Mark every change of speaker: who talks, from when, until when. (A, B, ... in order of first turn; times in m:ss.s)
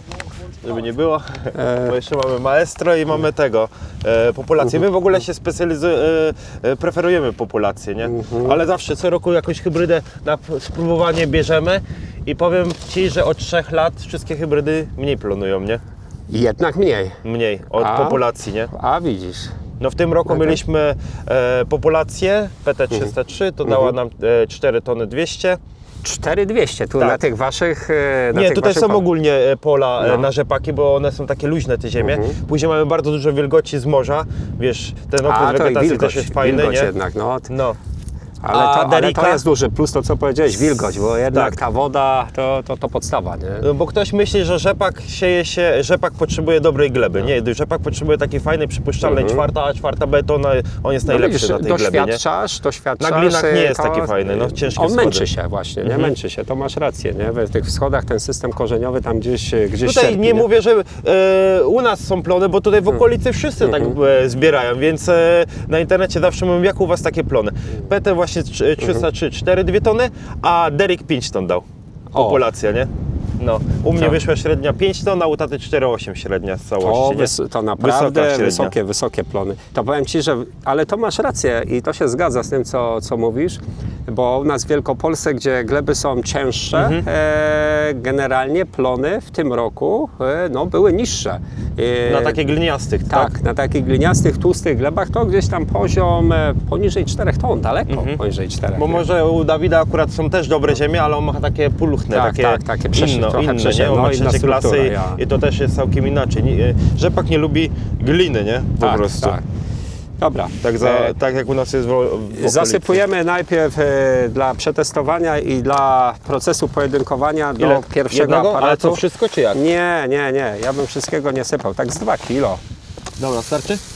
0:00.5-0:15.8 A
0:01.6-0:01.9 B
0:08.0-0:08.6 B
0:16.3-0:17.2 B
0:17.2-0:18.7 A
0:17.8-0:19.5 B
0:19.8-0:25.6 A
0:20.3-0:20.6 B
0:23.7-0:23.9 B
0:26.0-0:29.0 B
0:28.3-0:36.9 A
0:30.0-0:30.3 B
0:32.0-0:32.4 B
0:35.2-0:37.5 B
0:37.5-0:37.8 A
0:38.4-0:43.7 B
0:38.5-0:39.4 A
0:41.3-0:41.6 A
0:43.6-0:52.2 A
0:49.0-0:49.4 B
0:51.1-1:00.5 B
0:53.0-0:55.3 A
0:55.8-0:56.1 A
0:59.8-1:18.8 A
1:03.6-1:04.0 B
1:12.1-1:12.4 B
1:16.8-1:32.4 B
1:26.7-1:27.1 A
1:32.1-1:33.3 A
1:33.1-1:39.0 B
1:37.9-1:38.2 A
1:38.8-1:49.4 A
1:42.1-1:45.2 B
1:48.8-1:49.4 B
1:50.2-1:51.2 B
1:50.6-1:53.0 A
1:52.3-1:59.0 B
1:57.6-1:59.6 A
1:59.5-2:02.6 B
2:03.2-2:03.8 A